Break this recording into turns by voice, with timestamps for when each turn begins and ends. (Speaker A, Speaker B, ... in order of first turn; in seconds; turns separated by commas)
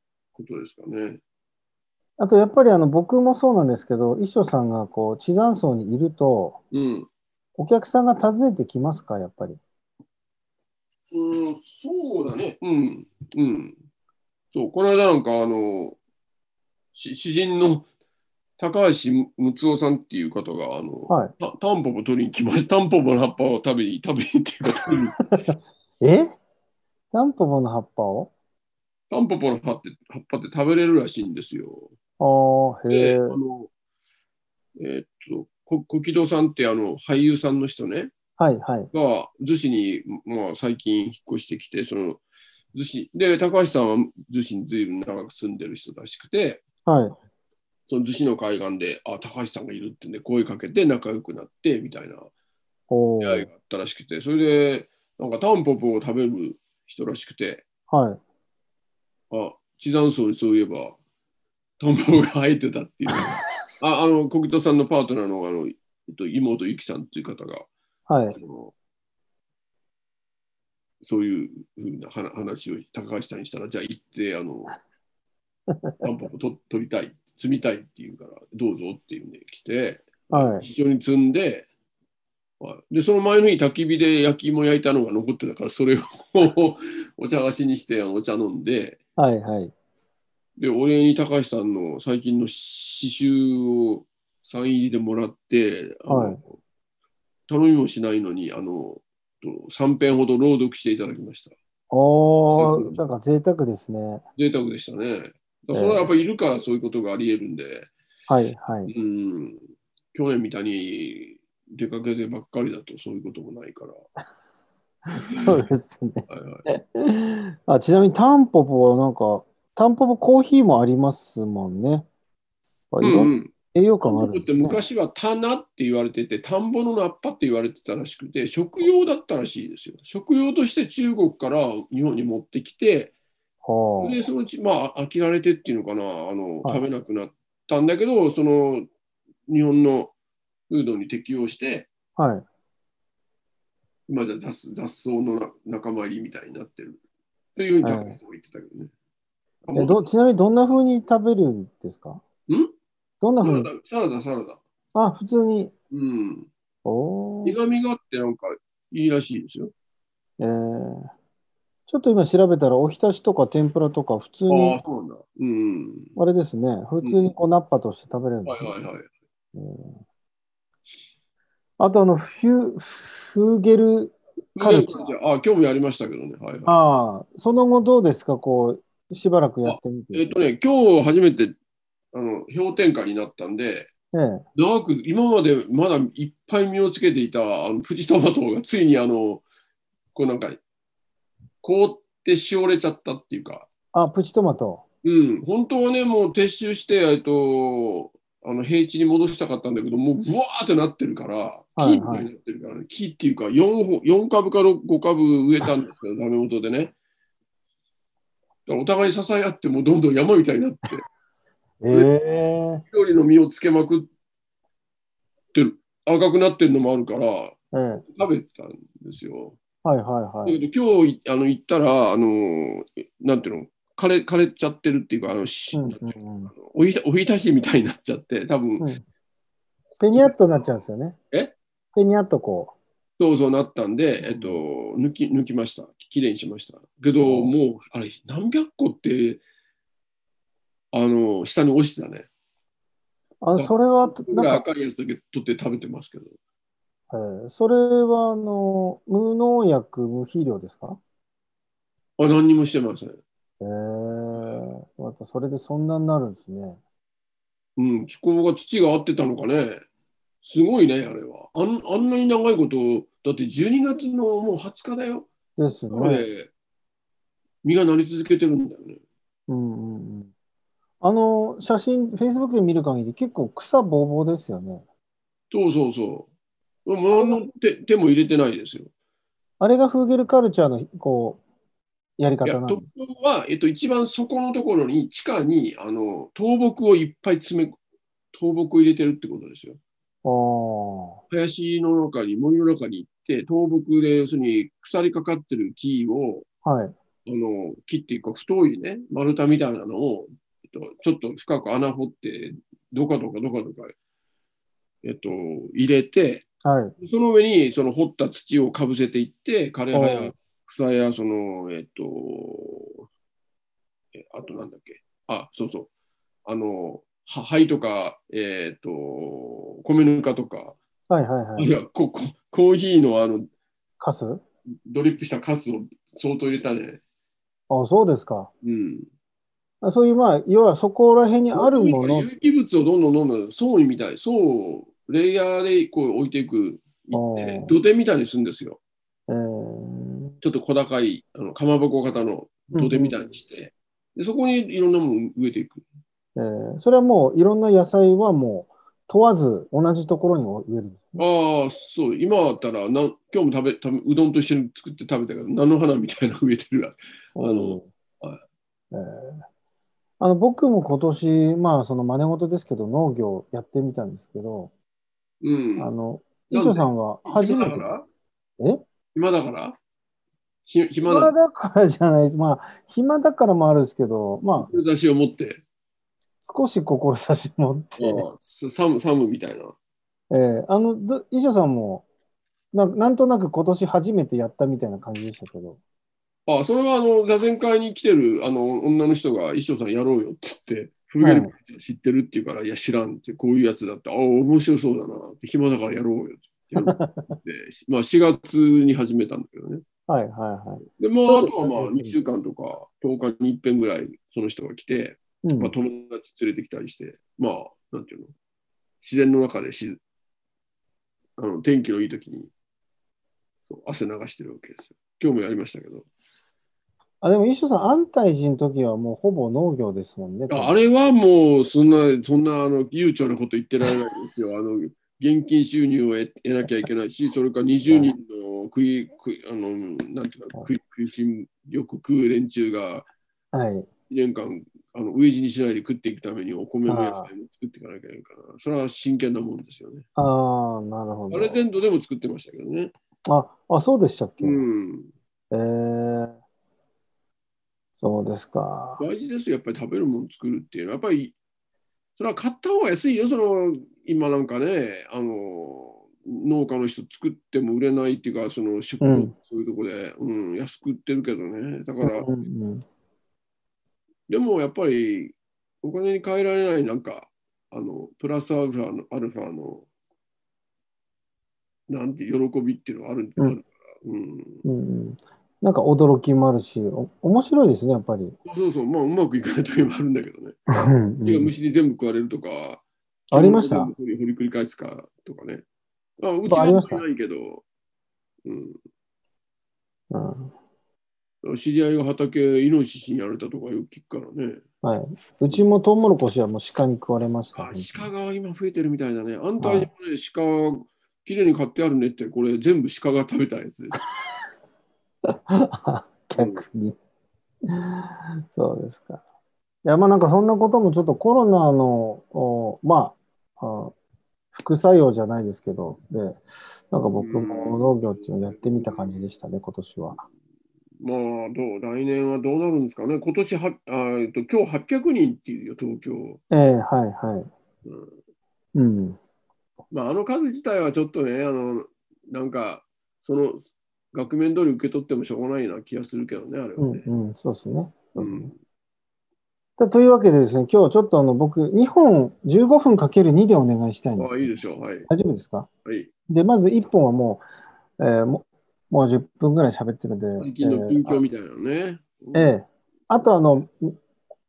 Speaker A: 0.3-1.2, Speaker B: 2.2-6.6, Speaker A: 6.7-7.1, Speaker B: 7.6-9.6, Speaker A: 11.1-13.8, Speaker A: 14.5-16.0, Speaker A: 16.9-17.9, Speaker A: 18.6-25.5, Speaker B: 26.0-26.3, Speaker B: 27.1-28.3, Speaker A: 29.1-31.9, Speaker B: 32.2-33.4, Speaker A: 32.9-33.7, Speaker A: 34.8-38.1, Speaker B: 38.4-38.9, Speaker A: 38.9-42.2, Speaker A: 42.7-46.6, Speaker B: 46.9-47.2, Speaker A: 47.9-52.3, Speaker B: 52.9-53.5, Speaker A: 53.2-57.6, Speaker B: 57.9-58.2, Speaker A: 59.3-61.0, Speaker A: 61.8-67.7, Speaker B: 63.1-63.4, Speaker B: 68.1-68.4, Speaker A: 68.3-68.7, Speaker A: 71.0-74.8, Speaker A: 76.0-81.7, Speaker B: 80.3-80.7, Speaker A: 82.6-89.0, Speaker B: 89.2-89.7, Speaker A: 90.6-96.5, Speaker B: 96.1-96.4, Speaker A: 97.5-101.5, Speaker B: 101.9-104.2, Speaker A: 102.5-103.0, Speaker A: 104.4-107.9, Speaker B: 105.7-106.1, Speaker B: 108.3-108.9, Speaker A: 108.9-114.0, Speaker B: 115.1-122.1, Speaker A: 116.3-116.7, Speaker B: 122.9-124.8, Speaker A: 123.0-123.5, Speaker A: 124.0-133.1, Speaker B: 133.6-134.2, Speaker A: 134.0-138.9, Speaker A: 139.5-140.1, Speaker A: 140.7-141.9, Speaker B: 142.2-142.4, Speaker A: 144.1-147.0, Speaker A: 147.6-148.9, Speaker B: 147.8-148.2, Speaker A: 149.7-150.1, Speaker B: 149.7-152.2, Speaker A: 152.5-152.7, Speaker B: 153.2-153.7, Speaker A: 153.4-154.6, Speaker B: 154.9-155.7, Speaker A: 155.9-156.5, Speaker B: 156.8-157.6, Speaker A: 157.4-159.7, Speaker B: 160.4-161.1, Speaker B: 161.9-164.8, Speaker A: 164.5-166.1, Speaker B: 166.2-168.8, Speaker A: 167.0-167.3, Speaker A: 168.5-169.1, Speaker B: 169.6-170.0, Speaker B: 171.8-175.2, Speaker A: 174.6-176.8, Speaker B: 176.7-180.3, Speaker A: 179.6-181.6, Speaker A: 182.1-183.9, Speaker B: 184.1-184.4, Speaker A: 184.6-189.4, Speaker A: 190.1-190.6, Speaker A: 191.6-193.7, Speaker B: 193.9-194.8, Speaker A: 195.0-206.9, Speaker B: 201.8-202.3, Speaker A: 208.7-211.0, Speaker B: 211.8-212.8, Speaker A: 212.8-214.1, Speaker A: 215.5-219.6, Speaker B: 217.7-218.0, Speaker B: 219.8-220.6, Speaker A: 220.4-228.9, Speaker B: 225.7-226.5, Speaker B: 230.0-231.2, Speaker A: 230.1-230.4, Speaker B: 231.9-232.8, Speaker A: 233.2-239.4, Speaker B: 234.2-234.6, Speaker B: 237.2-237.6, Speaker A: 240.9-242.3, Speaker B: 243.4-244.6, Speaker A: 243.6-246.3, Speaker B: 247.1-251.0, Speaker A: 252.2-253.2, Speaker B: 253.6-256.8, Speaker A: 254.4-254.7, Speaker A: 257.8-259.8, Speaker A: 260.4-265.3, Speaker B: 265.6-266.3, Speaker A: 265.9-266.5, Speaker A: 267.6-269.0, Speaker B: 269.5-270.3, Speaker B: 271.0-274.8, Speaker A: 275.5-276.3, Speaker A: 276.9-278.9, Speaker B: 277.1-277.5, Speaker B: 279.6-281.4, Speaker B: 282.2-282.9, Speaker A: 282.4-287.8, Speaker A: 288.3-289.8, Speaker B: 290.2-291.2, Speaker A: 291.3-296.5, Speaker B: 296.6-296.9, Speaker A: 297.3-303.9, Speaker A: 305.0-306.5, Speaker B: 306.6-306.9, Speaker A: 307.0-313.0, Speaker B: 309.9-310.3, Speaker A: 314.2-315.9, Speaker A: 316.5-320.8, Speaker B: 321.1-321.7, Speaker A: 321.6-323.5, Speaker B: 324.0-324.4, Speaker A: 324.9-327.0, Speaker B: 327.7-328.5, Speaker A: 328.6-329.1, Speaker B: 329.8-332.3, Speaker A: 331.5-338.8, Speaker B: 337.1-337.8, Speaker B: 339.3-340.4, Speaker A: 340.4-345.9, Speaker B: 342.7-343.2, Speaker B: 346.4-351.2, Speaker A: 351.2-358.4, Speaker B: 357.4-357.9, Speaker B: 358.9-359.4, Speaker B: 360.2-364.7, Speaker A: 365.4-365.9, Speaker B: 365.8-367.9, Speaker A: 366.5-368.1, Speaker A: 369.1-369.8, Speaker A: 370.7-371.3, Speaker B: 371.0-374.7, Speaker A: 374.6-375.6, Speaker B: 376.4-378.3, Speaker A: 378.0-379.8, Speaker B: 380.3-382.1, Speaker B: 382.7-385.8, Speaker A: 386.5-399.8, Speaker B: 391.2-391.5, Speaker B: 396.8-397.4, Speaker B: 400.1-402.2, Speaker A: 401.0-408.3, Speaker B: 405.4-405.7, Speaker A: 409.0-410.0, Speaker A: 411.4-412.5, Speaker A: 413.7-416.1, Speaker B: 417.2-420.8, Speaker A: 420.5-433.1, Speaker B: 427.9-428.1, Speaker B: 433.5-433.9, Speaker A: 434.1-440.1, Speaker B: 436.9-437.3, Speaker B: 440.2-441.6, Speaker A: 441.3-442.9, Speaker B: 443.3-444.6, Speaker A: 444.4-445.1, Speaker B: 445.5-446.4, Speaker B: 448.0-449.1, Speaker A: 449.0-451.4, Speaker A: 452.2-462.3, Speaker B: 459.0-459.3, Speaker B: 462.0-462.8, Speaker A: 464.3-469.9, Speaker A: 471.9-474.6, Speaker B: 474.6-478.4, Speaker A: 478.4-480.6, Speaker B: 480.7-481.5, Speaker A: 481.2-485.6, Speaker B: 483.3-483.9, Speaker A: 486.2-487.6, Speaker B: 486.5-487.1, Speaker A: 488.4-488.8, Speaker B: 490.1-490.5, Speaker A: 491.4-494.6, Speaker B: 494.8-498.1, Speaker A: 497.5-504.0, Speaker B: 499.6-499.9, Speaker B: 505.5-507.0, Speaker A: 506.4-506.6, Speaker B: 508.5-509.2, Speaker B: 509.9-513.9, Speaker B: 514.5-520.2, Speaker A: 517.2-519.2, Speaker A: 521.0-526.4, Speaker B: 526.5-527.5, Speaker A: 527.9-528.2, Speaker B: 528.8-529.2, Speaker A: 529.9-537.1, Speaker B: 536.8-538.5, Speaker A: 538.2-538.6, Speaker B: 539.8-545.7, Speaker A: 544.2-545.1, Speaker A: 545.9-546.1, Speaker B: 546.3-547.5, Speaker B: 548.0-551.2, Speaker A: 550.4-552.6, Speaker B: 552.4-554.0